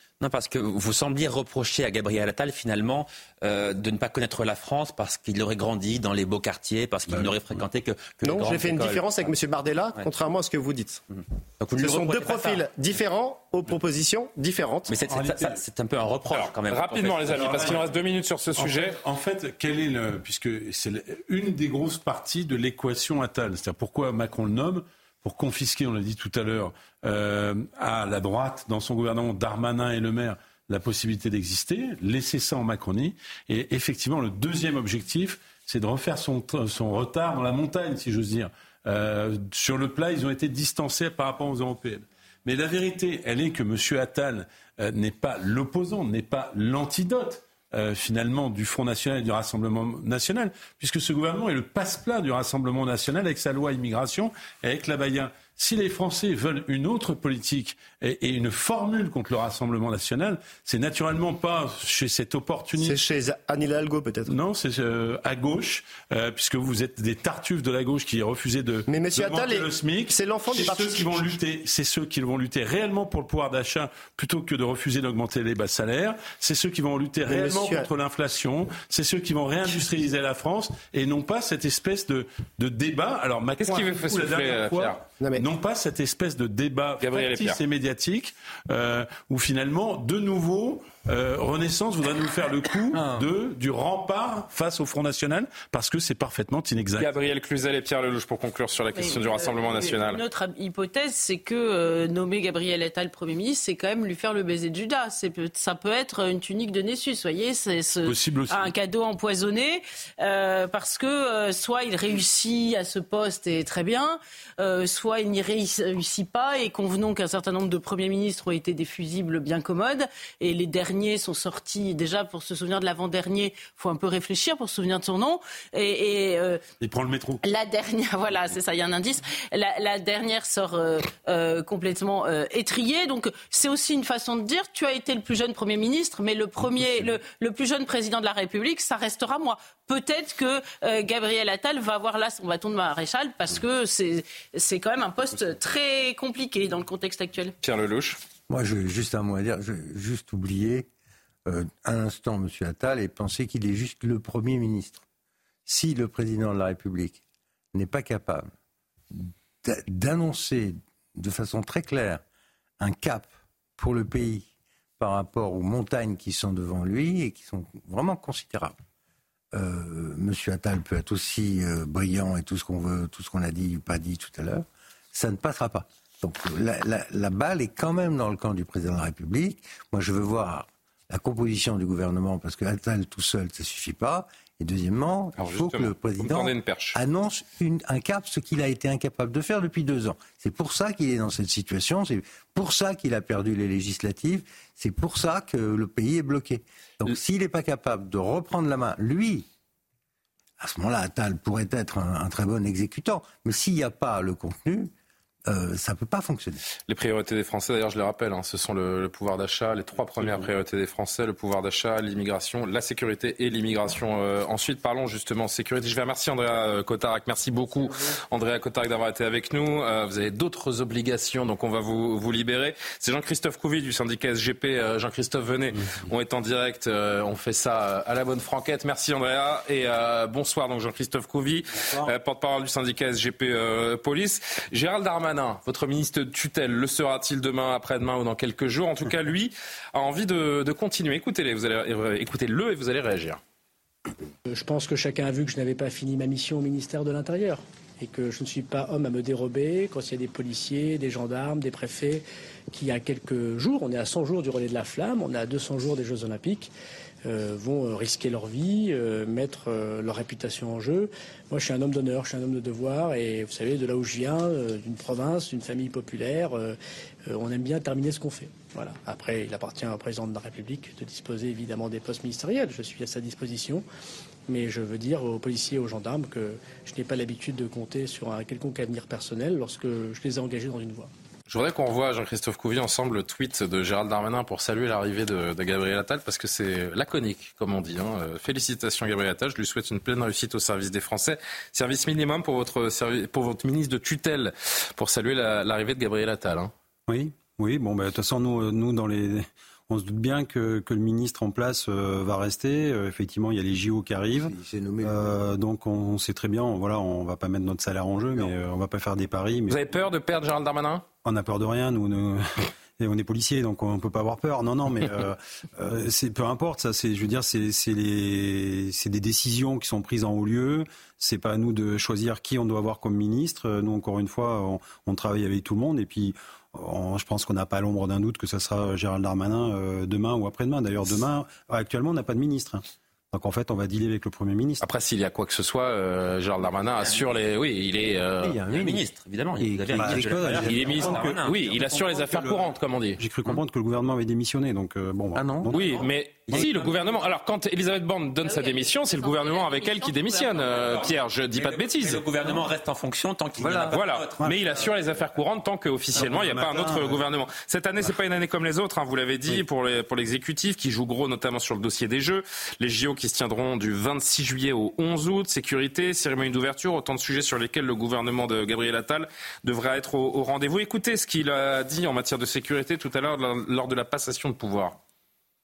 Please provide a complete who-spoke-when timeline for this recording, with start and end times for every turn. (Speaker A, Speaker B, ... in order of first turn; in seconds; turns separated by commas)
Speaker A: 0.2-9.3, Speaker B: 7.1-7.6, Speaker C: 8.2-11.0, Speaker A: 11.6-12.6, Speaker C: 11.8-14.9, Speaker A: 14.9-17.6, Speaker B: 15.1-15.6, Speaker D: 16.3-19.0, Speaker B: 17.3-17.9, Speaker B: 18.6-63.0, Speaker C: 62.8-64.3, Speaker B: 64.3-97.1, Speaker C: 68.9-71.4, Speaker C: 77.2-77.9, Speaker D: 83.6-85.0, Speaker C: 85.2-85.4, Speaker D: 87.0-87.6, Speaker E: 92.9-93.2, Speaker D: 97.0-100.2, Speaker F: 98.9-126.6, Speaker B: 108.0-108.7, Speaker B: 126.8-127.4, Speaker F: 127.4-147.5, Speaker D: 147.6-148.2, Speaker E: 148.5-150.9, Speaker E: 151.5-155.0, Speaker E: 155.7-157.2, Speaker E: 157.7-158.5, Speaker E: 159.1-162.2, Speaker E: 162.8-168.7, Speaker E: 169.5-199.4, Speaker D: 185.4-187.0, Speaker E: 200.6-204.9, Speaker E: 205.5-206.6, Speaker D: 206.9-243.4, Speaker G: 244.5-256.7, Speaker G: 257.2-273.8, Speaker G: 274.5-281.1, Speaker D: 281.5-296.7, Speaker H: 297.1-309.8, Speaker E: 304.3-305.3, Speaker D: 309.7-311.1, Speaker H: 311.2-334.9, Speaker D: 334.8-338.6, Speaker A: 337.0-337.2, Speaker E: 338.4-339.1, Speaker A: 338.5-341.8, Speaker E: 339.6-341.3, Speaker H: 339.8-342.6, Speaker D: 340.6-343.2, Speaker H: 343.2-345.8, Speaker E: 345.3-345.8, Speaker D: 345.7-352.2, Speaker E: 346.5-346.9, Speaker F: 348.4-350.6, Speaker A: 350.7-354.4, Speaker E: 353.6-354.6, Speaker D: 353.9-375.0, Speaker B: 356.2-357.1